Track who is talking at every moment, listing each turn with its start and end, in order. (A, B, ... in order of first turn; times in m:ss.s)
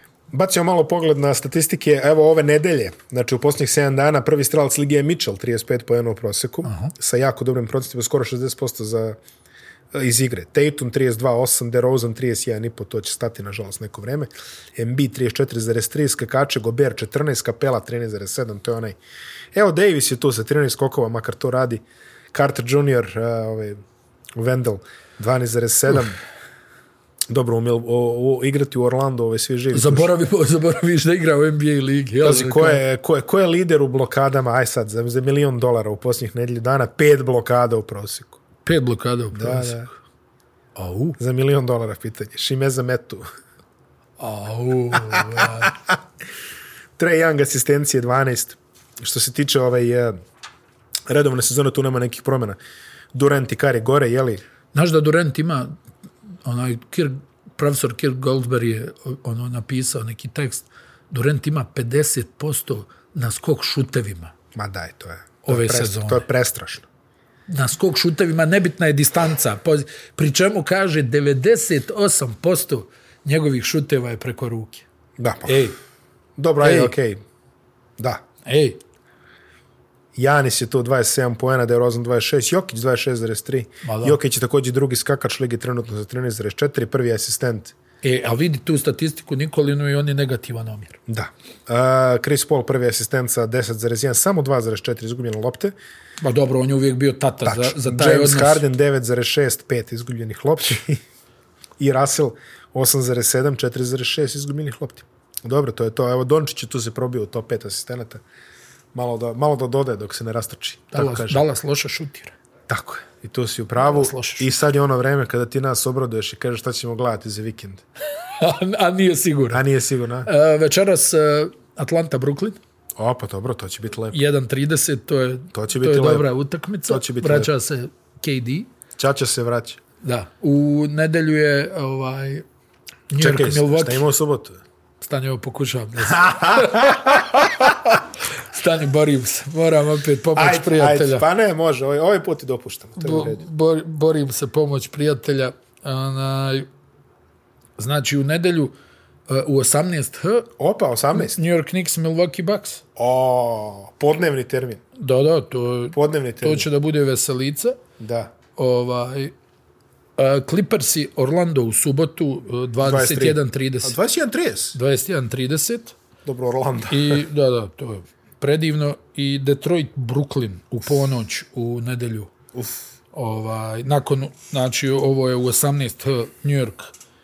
0:00.3-0:09.2 A
0:06.6-0:06.9 B
0:09.9-0:19.0 A
0:19.5-0:23.8 A
0:24.4-0:26.2 A
0:27.3-0:30.1 A
0:29.7-0:32.8 B
0:32.2-0:38.4 A
0:38.6-0:39.9 B
0:39.3-0:39.9 A
0:40.8-0:41.2 B
0:41.2-0:43.2 A
0:44.2-0:45.7 B
0:44.9-0:45.7 A
0:47.0-0:50.2 A
0:51.1-0:52.6 A
0:53.1-0:54.4 A
0:54.7-0:55.7 B
0:56.4-1:04.3 B
1:04.5-1:06.9 A
1:05.4-1:06.2 B
1:07.5-1:14.8 B
1:15.2-1:15.6 A
1:15.4-1:15.8 B
1:16.4-1:17.2 A
1:16.6-1:16.9 B
1:18.0-1:18.2 A
1:18.4-1:18.8 B
1:20.2-1:27.7 A
1:23.8-1:24.2 B
1:28.0-1:31.0 B
1:31.1-1:35.7 A
1:36.2-1:38.6 B
1:37.4-1:41.0 A
1:41.8-1:48.2 A
1:48.9-1:51.4 A
1:50.9-1:52.3 B
1:52.7-1:57.8 A
1:53.8-1:54.5 B
1:58.4-1:59.6 B
1:59.5-2:00.3 A
2:00.2-2:02.6 B
2:03.0-2:04.2 A
2:04.1-2:08.7 B
2:05.5-2:06.3 A
2:06.9-2:07.5 A
2:09.0-2:09.8 A
2:10.0-2:12.4 B
2:13.1-2:14.0 B
2:13.2-2:14.6 A
2:15.0-2:21.2 B
2:16.0-2:17.7 A
2:20.3-2:23.4 A
2:23.0-2:26.7 B
2:27.8-2:28.7 B
2:29.3-2:30.5 B
2:30.6-2:31.4 A
2:31.1-2:32.8 B
2:33.0-2:34.8 A
2:35.0-2:37.8 B
2:35.9-2:36.7 A
2:38.0-2:38.3 A
2:38.6-2:39.3 B
2:40.2-2:44.0 B
2:42.8-2:44.8 A
2:44.7-2:45.9 B
2:46.2-2:47.2 A
2:46.9-2:52.3 B
2:52.5-2:52.9 A
2:53.1-2:56.9 B